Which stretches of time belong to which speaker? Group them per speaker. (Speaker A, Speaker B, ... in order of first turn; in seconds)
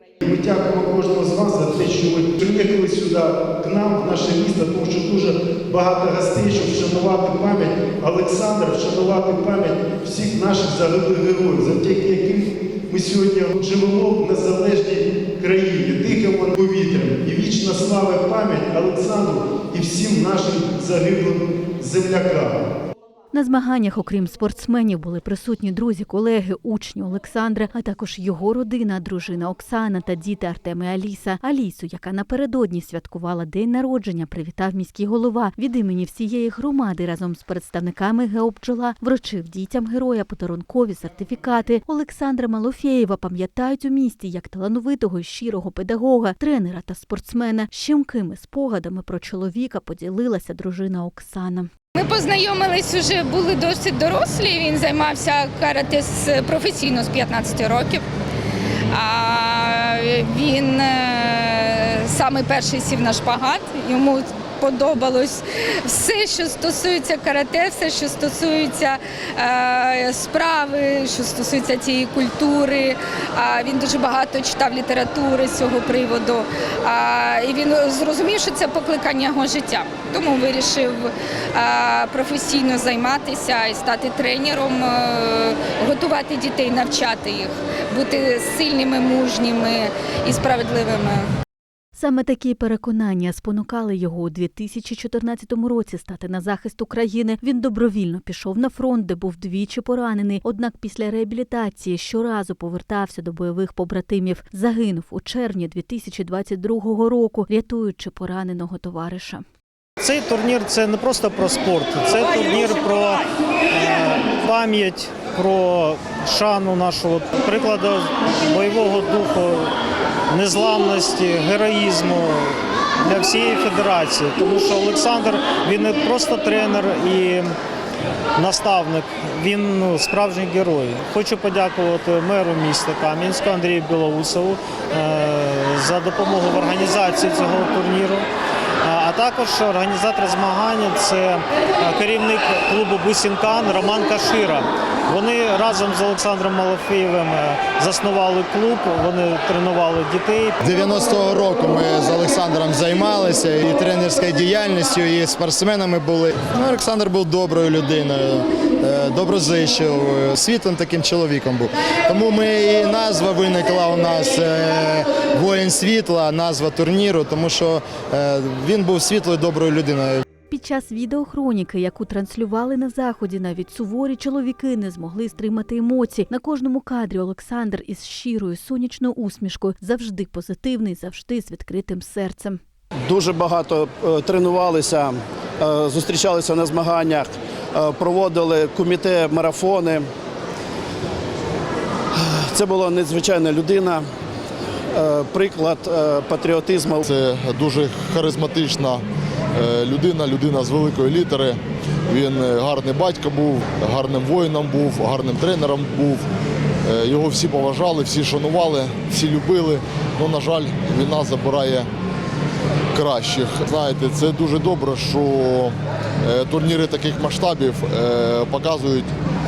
Speaker A: 0.2-22.6
Speaker B: 23.3-51.7, 92.0-109.4, 170.5-182.6
Speaker C: 52.0-58.0, 58.9-91.3
Speaker D: 110.0-119.7, 120.3-127.5, 128.4-138.3, 138.8-150.6
Speaker E: 150.6-170.2
Speaker F: 183.1-190.1, 192.1-194.1, 194.9-197.0
Speaker G: 197.0-199.0, 199.6-201.6, 202.1-206.2, 206.9-211.9, 212.9-219.1